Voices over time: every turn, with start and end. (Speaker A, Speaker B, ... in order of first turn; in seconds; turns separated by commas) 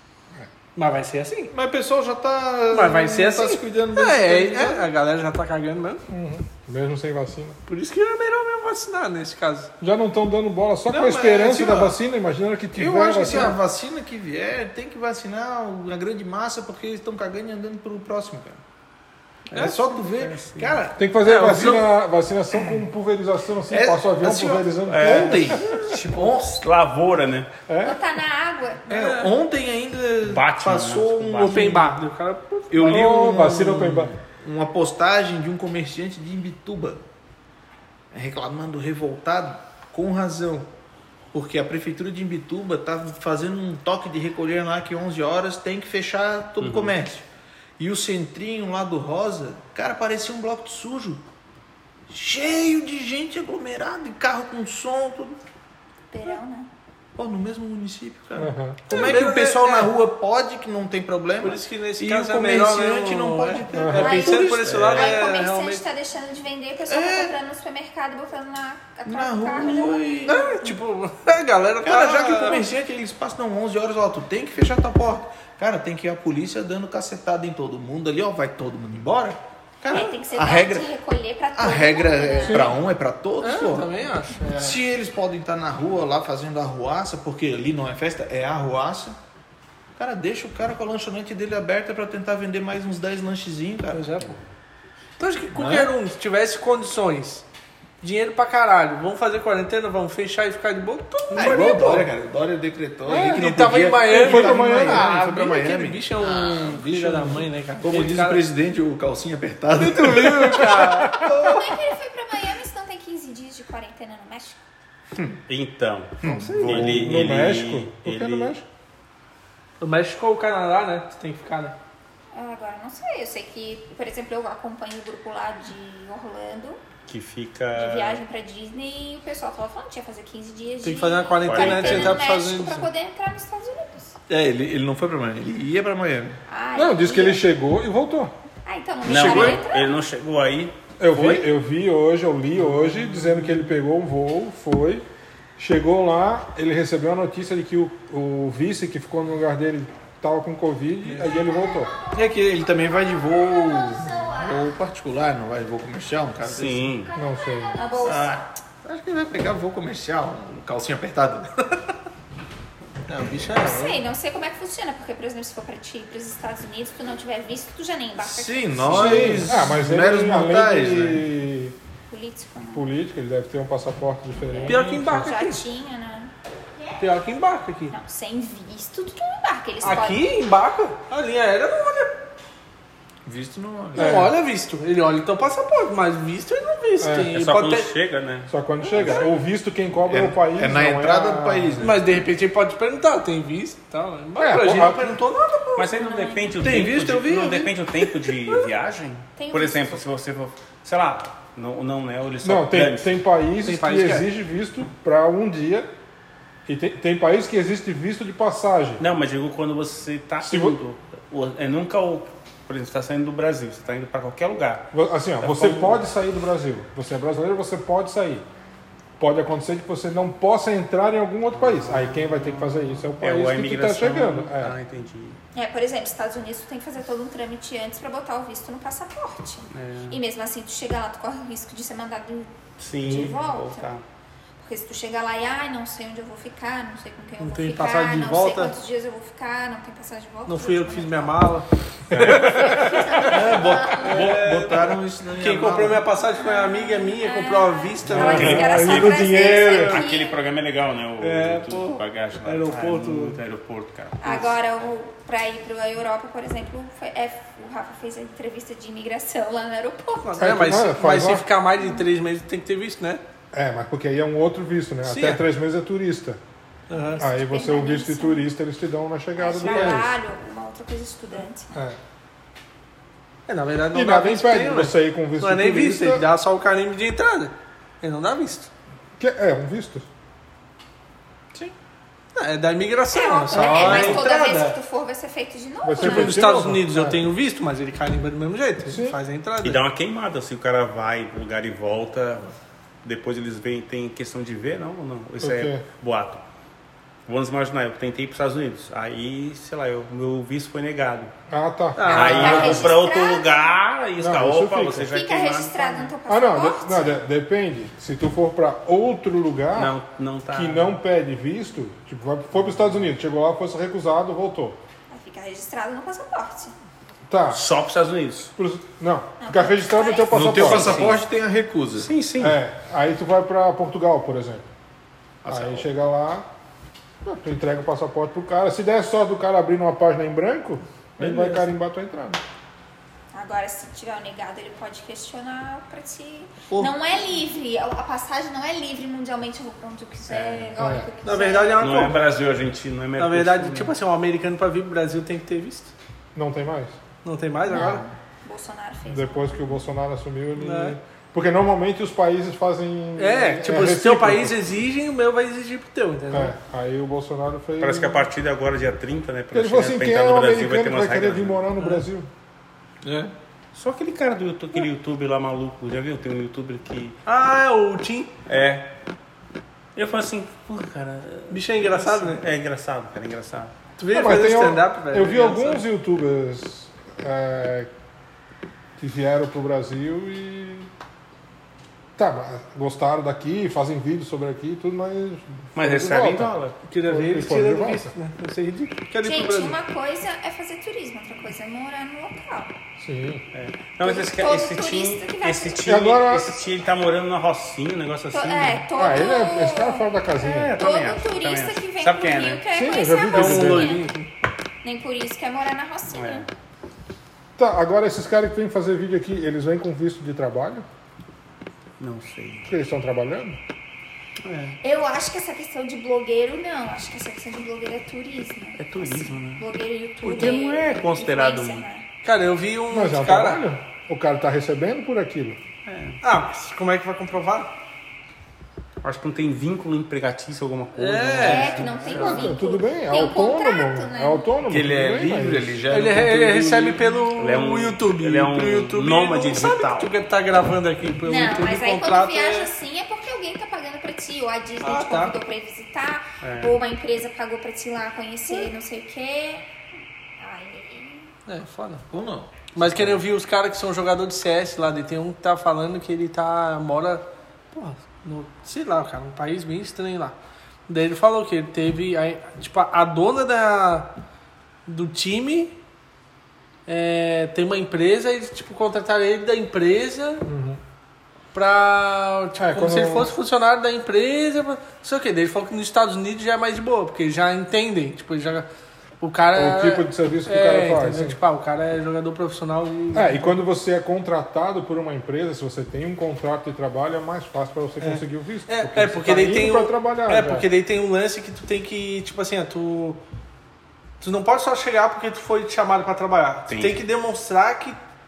Speaker A: 0.7-1.5, Speaker B: 1.5-4.9, Speaker A: 2.7-6.0, Speaker C: 6.1-7.6, Speaker A: 7.7-9.7, Speaker C: 9.8-13.6, Speaker B: 10.9-12.0, Speaker B: 12.7-18.6, Speaker A: 13.3-13.5, Speaker D: 19.5-20.8, Speaker B: 19.5-21.0, Speaker C: 21.0-25.6, Speaker A: 21.2-21.9, Speaker B: 23.7-26.6, Speaker D: 24.9-27.5, Speaker C: 27.7-28.0, Speaker E: 27.8-29.1, Speaker A: 28.9-29.3, Speaker B: 28.9-31.9, Speaker D: 30.2-31.9, Speaker A: 31.4-33.0, Speaker B: 32.7-37.0, Speaker C: 32.8-34.1, Speaker B: 38.1-40.7, Speaker B: 41.3-47.2, Speaker D: 46.6-46.9, Speaker B: 47.8-51.2, Speaker B: 52.1-55.4, Speaker E: 56.1-56.7, Speaker B: 57.1-65.2, Speaker C: 58.4-58.9, Speaker A: 58.9-59.9, Speaker A: 61.4-65.8, Speaker C: 63.7-64.2, Speaker E: 63.9-70.1, Speaker B: 66.9-67.3, Speaker B: 69.0-70.6, Speaker A: 70.2-72.7, Speaker B: 71.8-80.9, Speaker E: 79.9-82.7, Speaker B: 81.5-83.9, Speaker C: 82.4-82.7, Speaker A: 83.4-84.8, Speaker B: 84.5-89.2, Speaker B: 90.0-94.1, Speaker A: 93.9-94.4, Speaker A: 95.2-97.4, Speaker B: 95.5-95.9, Speaker A: 98.0-102.1, Speaker B: 101.3-111.8, Speaker C: 103.1-103.5, Speaker A: 103.1-108.5, Speaker C: 104.1-105.2, Speaker A: 109.8-111.3, Speaker C: 110.4-110.9, Speaker E: 111.1-114.6, Speaker D: 115.5-118.6, Speaker B: 116.2-116.6, Speaker A: 116.2-117.0, Speaker C: 116.6-118.6, Speaker A: 119.8-121.8, Speaker E: 122.3-126.8, Speaker D: 127.1-128.2, Speaker E: 127.7-134.1, Speaker A: 130.8-132.9, Speaker D: 131.4-132.2, Speaker B: 134.3-136.4, Speaker E: 136.5-137.4, Speaker C: 136.7-138.3, Speaker E: 138.7-139.9, Speaker D: 139.0-141.4, Speaker B: 139.1-139.6, Speaker C: 141.0-145.1, Speaker C: 145.6-151.9, Speaker E: 151.5-154.5, Speaker B: 152.1-156.9, Speaker D: 156.4-157.1, Speaker E: 157.1-158.4, Speaker C: 157.1-157.9, Speaker B: 158.0-161.9, Speaker A: 163.1-164.0, Speaker B: 163.2-163.7, Speaker E: 163.6-169.2, Speaker B: 168.2-171.3, Speaker C: 168.9-171.8, Speaker E: 172.1-172.8, Speaker C: 172.7-175.3, Speaker E: 174.4-176.3, Speaker A: 174.7-175.6, Speaker A: 177.0-177.9, Speaker E: 177.9-180.2, Speaker A: 179.8-182.2, Speaker B: 183.2-184.3, Speaker A: 183.9-187.9, Speaker C: 183.9-184.3, Speaker C: 187.0-187.3, Speaker D: 187.3-188.5, Speaker C: 188.5-191.9, Speaker E: 188.9-189.3, Speaker B: 190.1-192.1, Speaker A: 191.8-195.9, Speaker C: 194.4-195.1, Speaker D: 195.8-203.1, Speaker E: 195.9-196.8, Speaker A: 196.6-198.7, Speaker B: 196.6-197.5, Speaker E: 199.4-200.0, Speaker C: 202.4-205.9, Speaker A: 203.6-204.2, Speaker C: 206.7-209.0, Speaker D: 209.0-216.0, Speaker C: 210.4-210.8, Speaker C: 214.9-218.4, Speaker C: 219.2-224.8, Speaker D: 221.5-225.4, Speaker E: 225.5-233.9, Speaker D: 229.7-230.2, Speaker D: 232.8-234.0, Speaker C: 233.0-233.3, Speaker E: 234.6-241.5, Speaker A: 237.4-238.8, Speaker A: 240.4-244.8, Speaker C: 242.1-242.7, Speaker D: 242.1-242.9, Speaker E: 242.6-244.3, Speaker B: 243.2-246.1, Speaker D: 243.9-244.9, Speaker A: 245.4-249.9, Speaker E: 246.2-250.4, Speaker C: 248.1-250.0, Speaker D: 248.2-254.6, Speaker A: 251.2-253.4, Speaker E: 254.2-260.4, Speaker A: 260.2-263.2, Speaker C: 260.4-261.4, Speaker E: 261.8-262.0, Speaker C: 263.5-266.4, Speaker A: 265.0-265.4, Speaker A: 266.9-267.3, Speaker E: 267.1-268.4, Speaker C: 267.2-270.2, Speaker E: 269.4-271.7, Speaker A: 269.7-270.0, Speaker C: 271.7-272.0, Speaker A: 273.5-278.7, Speaker C: 273.9-276.2, Speaker C: 279.2-280.1, Speaker A: 282.3-284.8, Speaker E: 283.1-286.4, Speaker B: 283.6-284.1, Speaker C: 283.7-284.1, Speaker C: 285.8-287.2, Speaker A: 286.0-289.8, Speaker C: 288.9-289.2, Speaker D: 289.6-296.4, Speaker C: 295.4-295.8, Speaker D: 297.3-301.3, Speaker C: 301.5-302.9, Speaker A: 301.9-302.9, Speaker D: 302.1-306.1, Speaker E: 302.1-303.5, Speaker C: 304.2-305.1, Speaker E: 305.1-307.1, Speaker C: 306.3-309.9, Speaker D: 309.8-310.9, Speaker C: 310.5-314.8, Speaker E: 315.1-316.7, Speaker C: 317.3-317.6, Speaker D: 317.5-318.5, Speaker C: 318.6-321.0, Speaker E: 319.4-321.1, Speaker B: 320.3-322.1, Speaker D: 320.7-321.2, Speaker D: 322.0-322.6, Speaker C: 322.4-324.6, Speaker B: 325.4-325.9, Speaker C: 325.5-326.5, Speaker C: 327.2-332.4, Speaker E: 333.3-342.1, Speaker B: 336.7-336.9, Speaker D: 340.3-340.8, Speaker C: 340.8-341.1, Speaker A: 341.2-342.2, Speaker D: 341.8-343.9, Speaker A: 343.2-345.9, Speaker C: 346.3-347.0, Speaker A: 347.2-348.0, Speaker E: 347.7-349.8, Speaker C: 349.1-354.6, Speaker A: 350.6-350.9, Speaker A: 353.2-356.5, Speaker C: 356.3-358.2, Speaker D: 357.8-361.7, Speaker C: 359.5-362.3, Speaker B: 363.0-363.3, Speaker D: 363.7-367.2, Speaker A: 367.2-368.3, Speaker D: 368.5-368.9, Speaker D: 369.9-373.7, Speaker A: 371.5-372.4, Speaker A: 374.0-375.8, Speaker C: 374.1-377.9, Speaker C: 379.0-380.9, Speaker C: 382.2-388.1, Speaker D: 385.7-386.8, Speaker A: 386.9-389.8, Speaker E: 389.2-392.8, Speaker C: 393.0-393.4, Speaker D: 393.5-398.9, Speaker E: 394.0-395.8, Speaker C: 395.8-396.6, Speaker E: 398.3-404.1, Speaker C: 398.9-400.8, Speaker D: 400.4-402.6, Speaker C: 402.7-404.1, Speaker A: 403.3-404.3, Speaker E: 404.8-406.4, Speaker D: 406.1-406.5, Speaker C: 407.6-410.9, Speaker D: 412.0-412.7, Speaker C: 412.6-413.6, Speaker D: 414.4-414.8, Speaker E: 414.8-422.0, Speaker D: 418.8-419.6, Speaker D: 420.2-421.9, Speaker A: 422.2-423.6, Speaker C: 422.9-425.6, Speaker D: 425.9-426.2, Speaker A: 426.2-427.7, Speaker D: 429.0-432.5, Speaker A: 431.0-432.0, Speaker E: 431.4-434.5, Speaker C: 432.0-435.8, Speaker B: 434.6-437.2, Speaker A: 435.9-442.7, Speaker D: 437.3-440.1, Speaker E: 441.2-449.7, Speaker A: 444.8-445.3, Speaker D: 446.4-446.8, Speaker E: 450.4-451.3, Speaker A: 451.5-452.0, Speaker B: 452.1-452.5, Speaker A: 452.7-460.4, Speaker D: 452.8-453.2, Speaker A: 460.9-464.1, Speaker A: 464.9-465.7, Speaker A: 466.9-470.5, Speaker C: 470.4-470.8, Speaker A: 471.5-478.7, Speaker C: 472.6-473.3, Speaker A: 479.2-483.5, Speaker C: 479.5-481.4, Speaker C: 483.1-490.6, Speaker A: 488.0-493.2, Speaker A: 494.2-498.0, Speaker D: 496.7-497.0